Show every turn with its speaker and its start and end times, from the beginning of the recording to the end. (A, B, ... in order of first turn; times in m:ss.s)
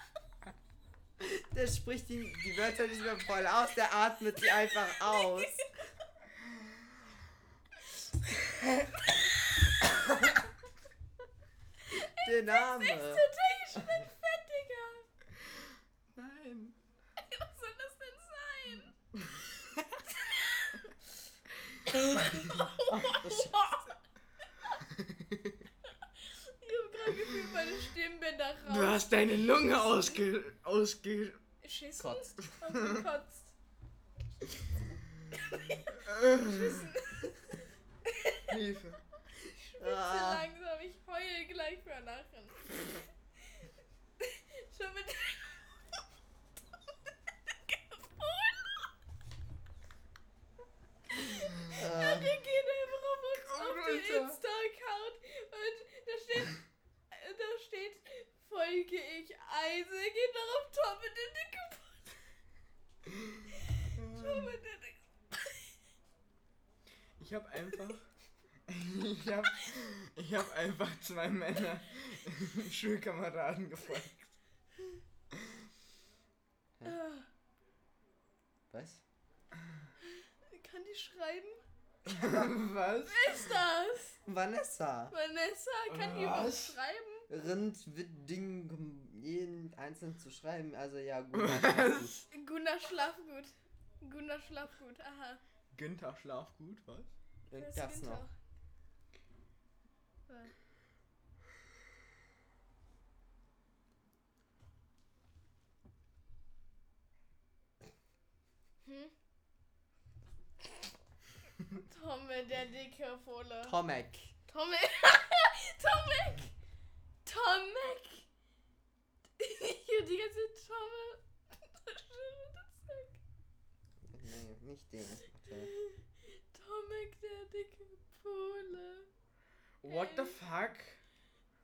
0:01.2-0:05.6 A
0:04.6-0:05.9 B
0:11.8-0:15.1 B
0:12.1-0:13.3 A
0:16.1-0:16.8 C
0:17.2-0:18.9 B
0:20.1-0:20.9 B
0:22.1-0:24.8 B
0:22.9-0:23.6 A
0:26.0-0:29.0 B
0:28.6-0:31.4 C
0:31.6-0:33.5 B
0:32.0-0:32.4 A
0:35.3-0:38.4 B
0:35.9-0:37.0 C
0:38.5-0:39.0 C
0:39.4-0:45.7 B
0:39.8-0:40.5 A
0:47.5-0:48.9 B
0:51.1-1:02.2 B
0:51.7-0:52.4 A
0:53.4-0:54.4 C
1:03.2-1:04.5 C
1:03.6-1:05.8 B
1:07.2-1:08.1 C
1:08.7-1:14.2 C
1:16.8-1:17.3 B
1:18.7-1:19.0 A
1:20.1-1:21.6 B
1:22.0-1:23.5 C
1:23.1-1:24.2 B
1:24.2-1:25.1 A
1:25.1-1:27.3 B
1:25.9-1:26.8 C
1:27.3-1:32.2 A
1:31.3-1:32.3 C
1:32.3-1:35.4 B
1:35.7-1:37.1 C
1:37.5-1:38.2 A
1:37.5-1:38.3 B
1:40.3-1:40.5 B
1:48.8-1:49.1 B
1:51.8-1:53.8 B
1:53.6-1:54.3 A
1:54.5-1:56.5 B
1:57.2-1:58.2 B
1:59.4-2:03.2 B
2:04.0-2:05.7 A
2:05.5-2:09.1 B
2:09.8-2:11.0 C
2:09.8-2:10.4 B